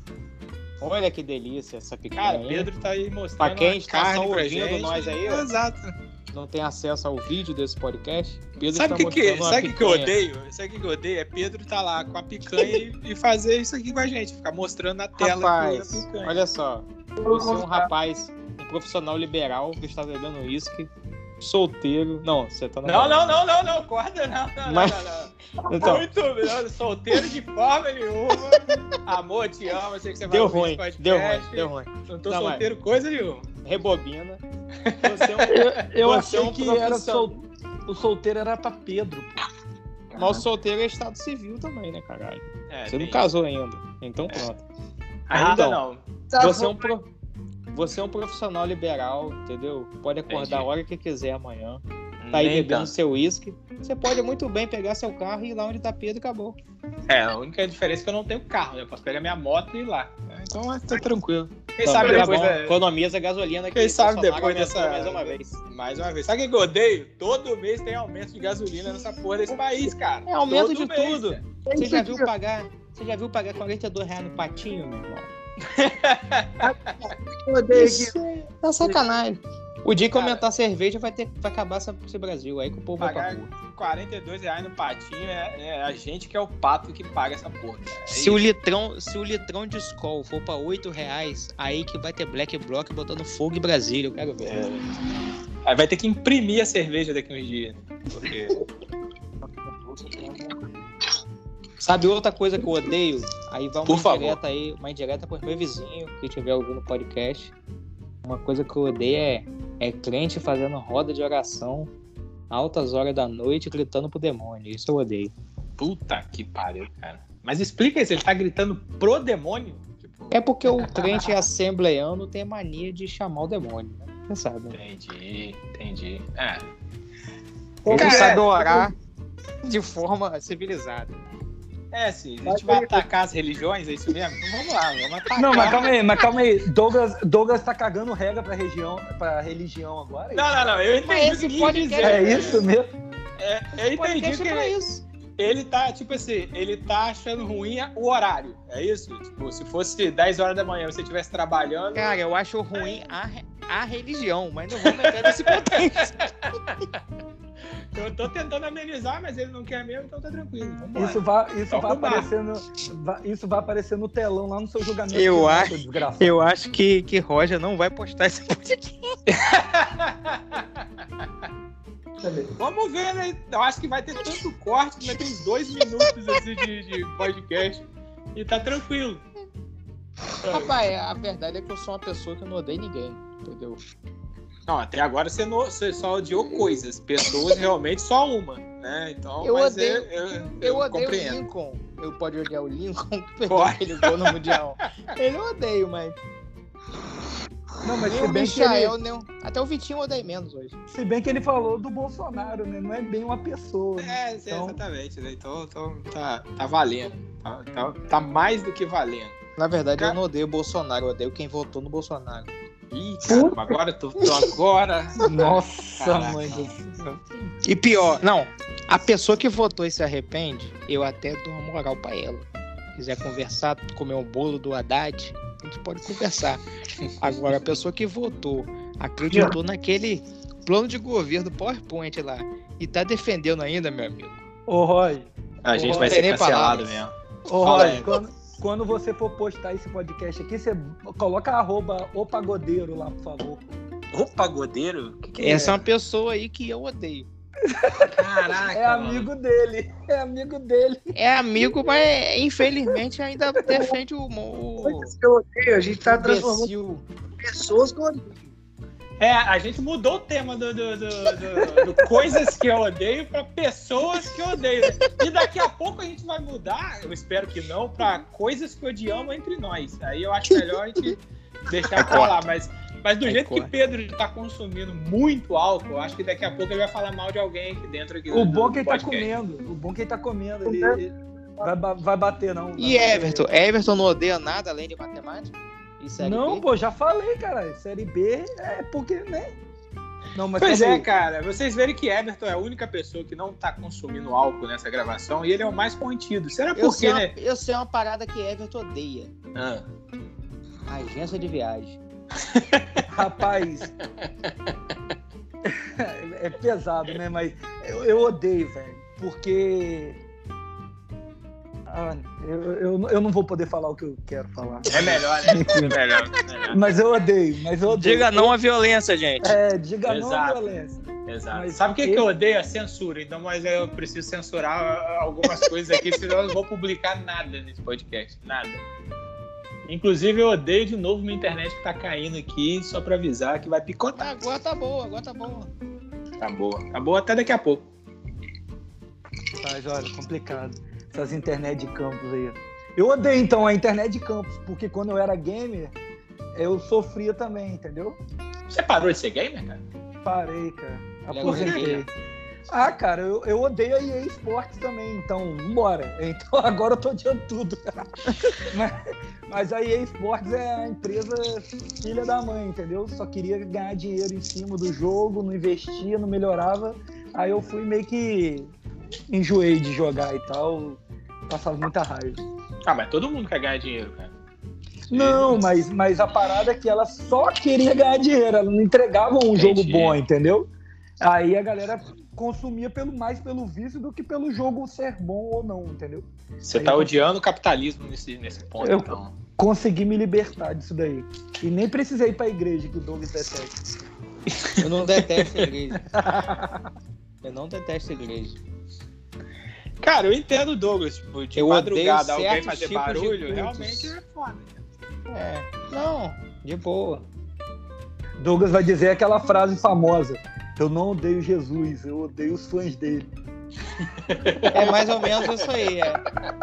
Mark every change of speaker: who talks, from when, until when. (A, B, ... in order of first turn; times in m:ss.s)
0:00.8-0:02.7 A
0:02.2-0:05.9 B
0:03.4-0:05.5 A
0:06.3-0:10.1 A
0:08.6-0:16.4 B
0:15.2-0:23.4 A
0:17.2-0:17.9 C
0:22.8-0:33.4 B
0:24.7-0:25.0 A
0:25.6-0:26.0 A
0:30.3-0:32.6 A
0:33.6-0:34.4 A
0:34.8-0:36.6 B
0:35.0-0:37.3 A
0:35.5-0:39.4 D
0:40.1-0:40.4 B
0:40.1-0:44.6 A
0:42.7-0:43.3 B
0:45.3-0:46.0 B
0:45.3-0:45.8 A
0:46.3-0:46.9 C
0:46.4-0:47.1 A
0:47.7-0:56.6 A
0:50.3-0:50.6 B
0:52.2-0:52.9 B
0:57.1-1:02.8 B
1:01.8-1:05.6 A
1:02.0-1:02.3 C
1:03.7-1:11.4 B
1:10.3-1:15.3 A
1:11.6-1:12.3 C
1:15.6-1:17.0 B
1:16.6-1:18.1 C
1:17.7-1:23.5 A
1:20.1-1:20.4 B
1:23.0-1:28.4 B
1:28.1-1:34.6 A
1:34.4-1:34.9 B
1:35.6-1:38.6 B
1:39.9-1:40.4 C
1:41.8-1:47.5 A
1:43.9-1:44.4 B
1:48.2-1:51.9 A
1:52.5-1:55.3 A
1:55.8-2:01.4 B
2:00.3-2:04.8 A
2:04.7-2:06.6 B
2:07.8-2:08.9 C
2:07.8-2:08.4 B
2:07.9-2:08.9 A
2:09.6-2:11.2 A
2:11.9-2:16.0 B
2:12.4-2:13.0 C
2:15.4-2:20.8 D
2:20.3-2:22.7 B
2:21.0-2:22.6 A
2:22.0-2:22.9 D
2:23.4-2:24.7 B
2:23.8-2:25.0 A
2:25.4-2:32.2 B
2:31.9-2:36.2 A
2:32.7-2:33.0 B
2:34.8-2:36.6 B
2:37.9-2:42.3 B
2:40.9-2:46.4 D
2:45.1-2:49.1 A
2:49.3-2:50.8 B
2:52.2-2:52.5 C
2:52.6-2:59.2 B
3:00.4-3:03.8 A
3:00.4-3:00.7 B
3:04.7-3:11.4 B
3:09.4-3:10.1 A
3:10.6-3:16.2 A
3:13.5-3:14.5 B
3:17.8-3:18.9 D
3:18.0-3:20.8 A
3:20.9-3:24.8 D
3:24.0-3:29.4 B
3:29.6-3:32.5 A
3:32.9-3:36.7 B
3:33.2-3:33.7 C
3:35.2-3:37.2 D
3:37.6-3:46.6 A
3:47.2-3:54.4 A
3:54.7-3:56.2 D
3:55.6-3:58.1 B
3:55.9-3:57.0 A
3:57.5-4:03.6 D
4:04.1-4:05.8 B
4:05.4-4:07.3 A
4:07.6-4:11.1 D
4:08.1-4:09.3 B
4:11.1-4:15.1 A
4:14.8-4:16.7 C
4:16.0-4:17.0 A
4:17.4-4:18.5 C
4:19.2-4:39.3 B
4:30.5-4:31.1 A
4:31.9-4:32.4 A
4:33.2-4:33.7 A
4:38.3-4:41.1 D
4:40.6-4:41.0 C
4:41.6-4:43.5 D
4:42.8-4:46.6 A
4:46.2-4:49.5 D
4:50.3-4:51.1 D
4:50.6-4:57.3 B
4:56.8-4:59.3 A
4:59.5-4:59.8 B
5:00.9-5:02.0 A
5:02.5-5:03.0 B
5:03.1-5:03.9 D
5:05.6-5:10.2 D
5:11.9-5:16.0 D
5:14.9-5:16.9 B
5:16.7-5:18.5 D
5:17.9-5:19.6 A
5:19.4-5:21.0 D
5:20.0-5:20.6 B
5:21.2-5:28.8 B
5:21.5-5:22.3 D
5:29.8-5:34.2 B
5:34.2-5:35.7 A
5:36.4-5:37.8 B
5:39.6-5:45.9 D
5:46.5-5:48.2 D
5:48.7-5:49.8 B
5:50.2-5:52.1 D
5:51.3-5:52.1 A
5:51.4-5:52.0 B
5:52.7-6:08.7 D
6:09.3-6:12.4 D
6:12.8-6:14.3 B
6:15.1-6:15.6 B
6:15.1-6:20.7 D
6:19.6-6:20.2 B
6:21.2-6:27.1 D
6:26.6-6:29.3 B
6:28.8-6:33.8 D
6:34.6-6:34.8 B
6:34.8-6:36.0 A
6:36.1-6:36.8 D
6:37.4-6:38.6 A
6:40.0-6:44.8 B
6:41.6-6:44.1 A
6:45.3-6:47.2 A
6:48.4-6:53.3 D
6:54.0-6:55.6 B
6:54.7-6:56.2 A